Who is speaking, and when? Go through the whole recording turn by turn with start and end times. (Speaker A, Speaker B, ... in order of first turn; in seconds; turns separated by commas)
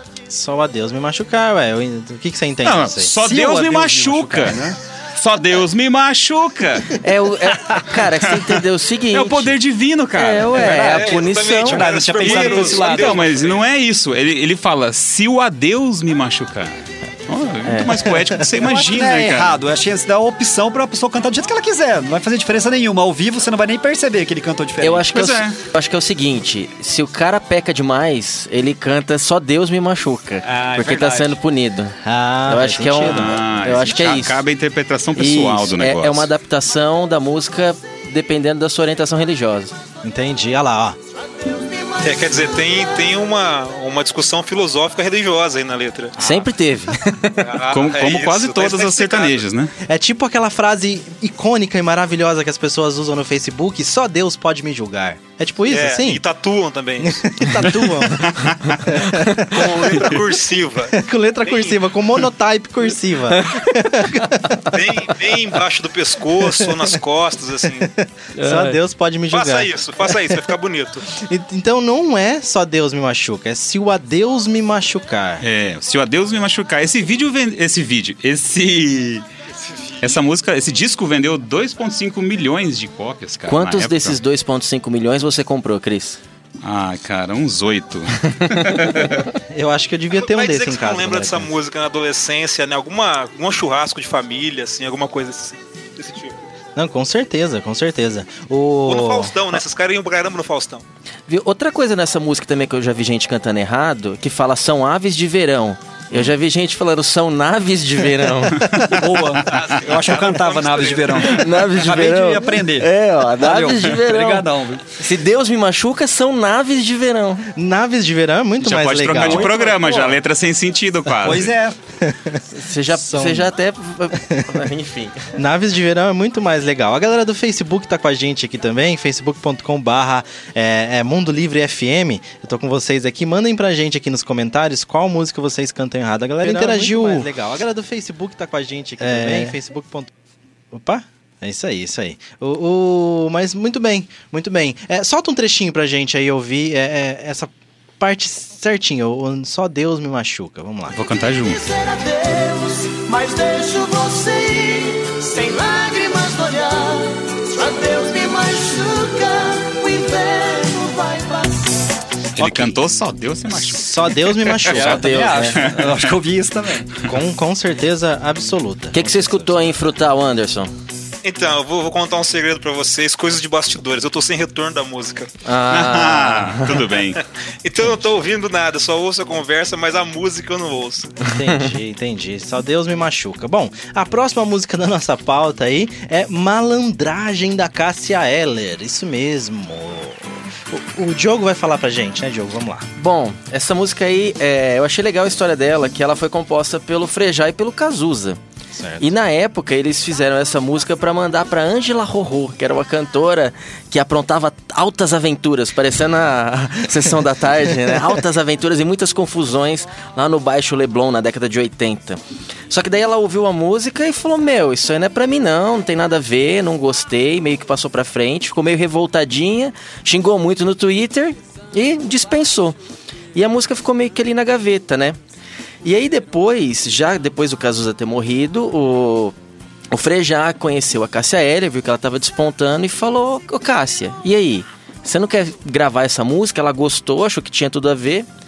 Speaker A: 0.3-3.1, Speaker B: 2.6-7.0, Speaker C: 3.2-4.8, Speaker D: 7.0-9.6, Speaker B: 7.7-10.6, Speaker D: 10.1-11.8, Speaker C: 10.5-13.6, Speaker E: 10.7-13.6, Speaker B: 12.2-19.5, Speaker D: 17.6-18.0, Speaker A: 18.1-18.5, Speaker C: 18.6-25.1, Speaker D: 24.8-34.4, Speaker B: 25.1-25.6, Speaker C: 30.4-31.4, Speaker A: 32.0-33.6, Speaker B: 33.0-36.3, Speaker D: 35.1-39.7, Speaker A: 40.0-41.0, Speaker F: 41.7-42.5, Speaker E: 42.0-46.1, Speaker D: 46.2-47.5, Speaker A: 46.2-46.5, Speaker E: 47.4-49.4, Speaker B: 47.7-49.7, Speaker A: 49.8-56.2, Speaker E: 55.7-57.3, Speaker A: 57.0-60.2, Speaker B: 57.8-59.0, Speaker E: 59.5-61.8, Speaker A: 60.9-64.8, Speaker E: 64.7-67.9, Speaker A: 66.4-66.8, Speaker A: 67.8-70.4, Speaker D: 68.4-68.8, Speaker E: 69.3-71.1, Speaker A: 71.1-75.4, Speaker B: 75.4-79.2, Speaker B: 80.0-84.2, Speaker D: 83.5-86.2, Speaker B: 86.6-89.3, Speaker A: 89.5-91.5, Speaker E: 90.1-96.4, Speaker A: 96.8-99.5, Speaker E: 98.8-100.8, Speaker D: 101.3-108.8, Speaker C: 108.8-114.8, Speaker E: 109.5-111.3, Speaker D: 111.2-117.5, Speaker A: 117.5-119.6, Speaker B: 118.6-121.5, Speaker C: 119.2-120.2, Speaker C: 121.2-121.7, Speaker A: 122.0-123.5, Speaker D: 122.5-125.3, Speaker A: 125.3-140.1, Speaker A: 140.7-151.0, Speaker B: 150.9-151.7, Speaker F: 151.3-161.9, Speaker B: 162.3-164.3, Speaker C: 162.4-162.7, Speaker A: 163.6-165.2, Speaker C: 164.6-166.9, Speaker D: 164.7-165.7, Speaker B: 165.6-166.1, Speaker A: 167.0-169.8, Speaker D: 168.9-170.7, Speaker E: 171.2-175.3, Speaker D: 175.4-176.8, Speaker B: 175.7-177.2, Speaker E: 177.6-181.2, Speaker A: 181.2-192.9, Speaker D: 193.0-198.4, Speaker A: 198.7-199.1, Speaker D: 199.0-222.8, Speaker D: 223.3-225.2, Speaker D: 225.8-229.3, Speaker D: 229.9-238.3